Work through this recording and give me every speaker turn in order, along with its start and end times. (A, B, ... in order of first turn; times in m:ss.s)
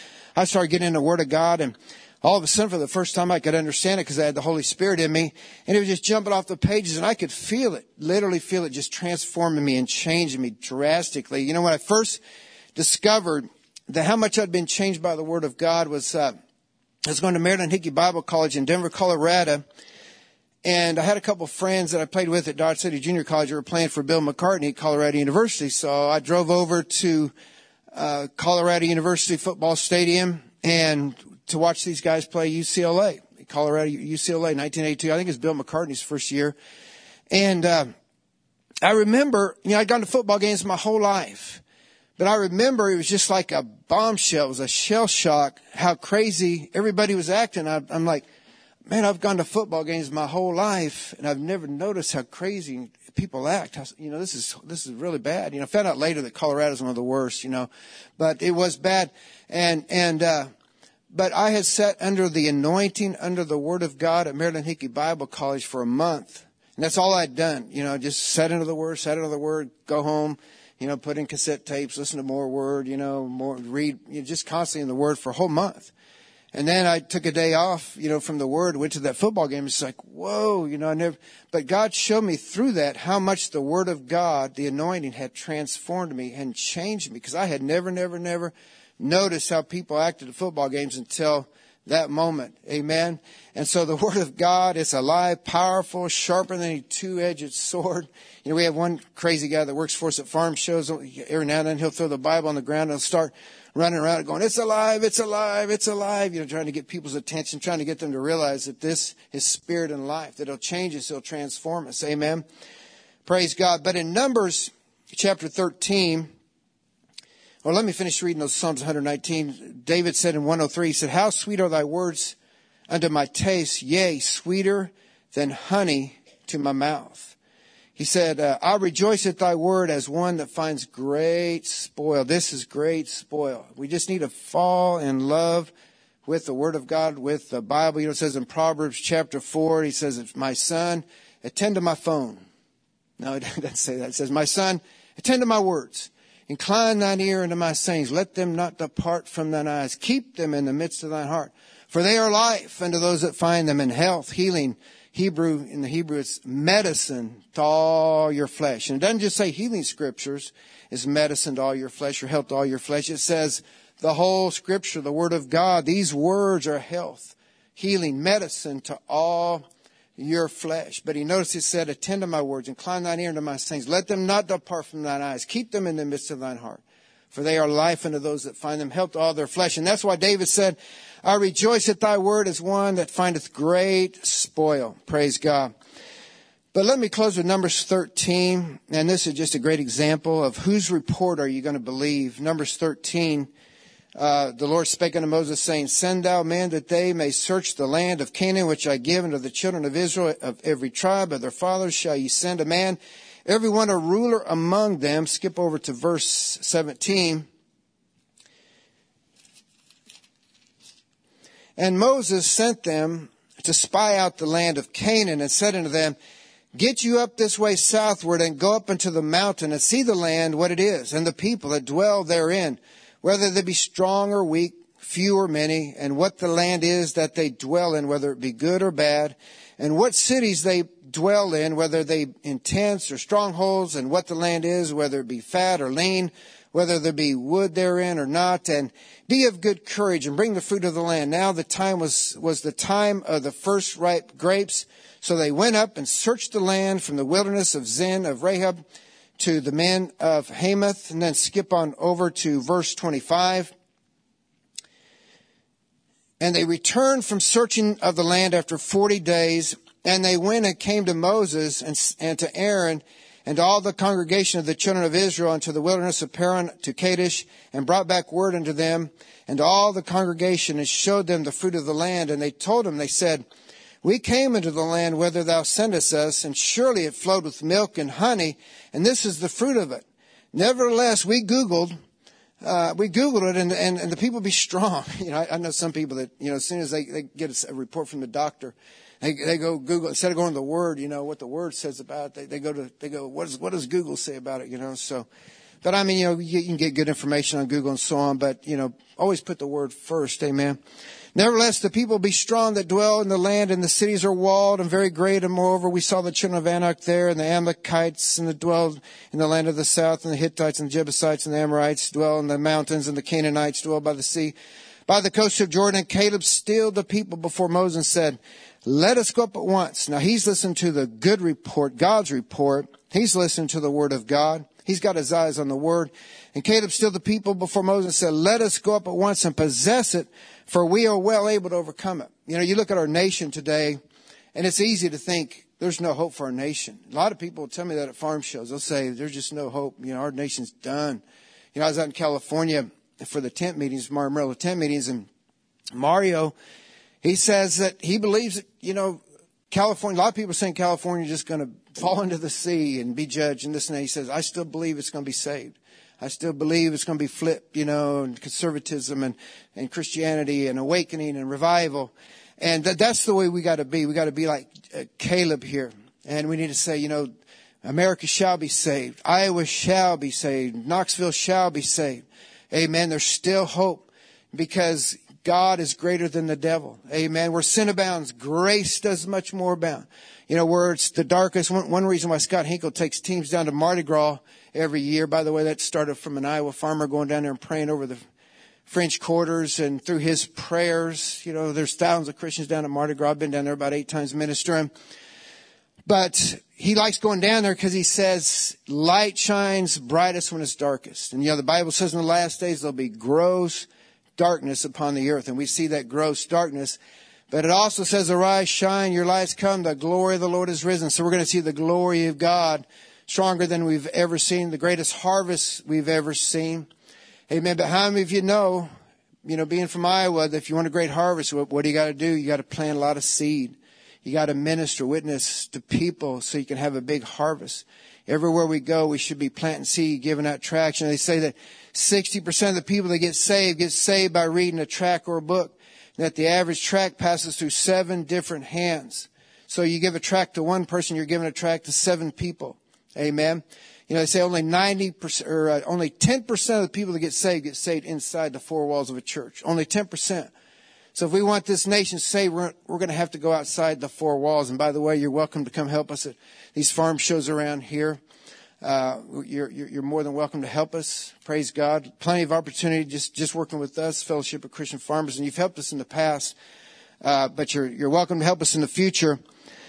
0:00.3-0:12.2 A
0:12.7-0:16.3 A
0:17.0-0:19.6 A
0:20.6-0:27.3 A
0:27.9-0:36.5 A
0:37.3-0:37.9 A
0:38.8-0:41.6 A
0:42.2-0:48.2 A
0:48.9-1:00.5 A
1:01.1-1:15.9 A
1:16.5-1:52.4 A
1:53.2-1:56.3 A
1:57.6-2:02.4 A
2:02.9-2:07.3 A
2:08.0-2:15.7 A
2:16.2-2:22.4 A
2:23.2-2:49.6 A
2:50.2-3:05.7 A
3:06.7-3:13.5 A
3:14.2-3:27.5 A
3:31.8-3:36.2 A
3:36.7-4:08.8 A
4:09.4-4:13.7 A
4:16.4-4:33.4 A
4:34.0-4:41.9 A
4:42.6-4:55.3 A
4:55.8-5:00.8 A
5:01.3-5:14.5 A
5:15.1-5:34.0 A
5:34.5-5:41.2 A
5:41.7-5:45.3 A
5:45.9-5:46.5 A
5:47.2-6:07.3 A
6:07.8-6:28.2 A
6:28.9-6:34.9 A
6:36.0-6:47.0 A
6:47.5-6:56.9 A
6:57.5-6:58.9 A
6:59.4-7:30.5 A
7:31.1-7:38.2 A
7:38.8-7:46.6 A
7:47.2-7:49.4 A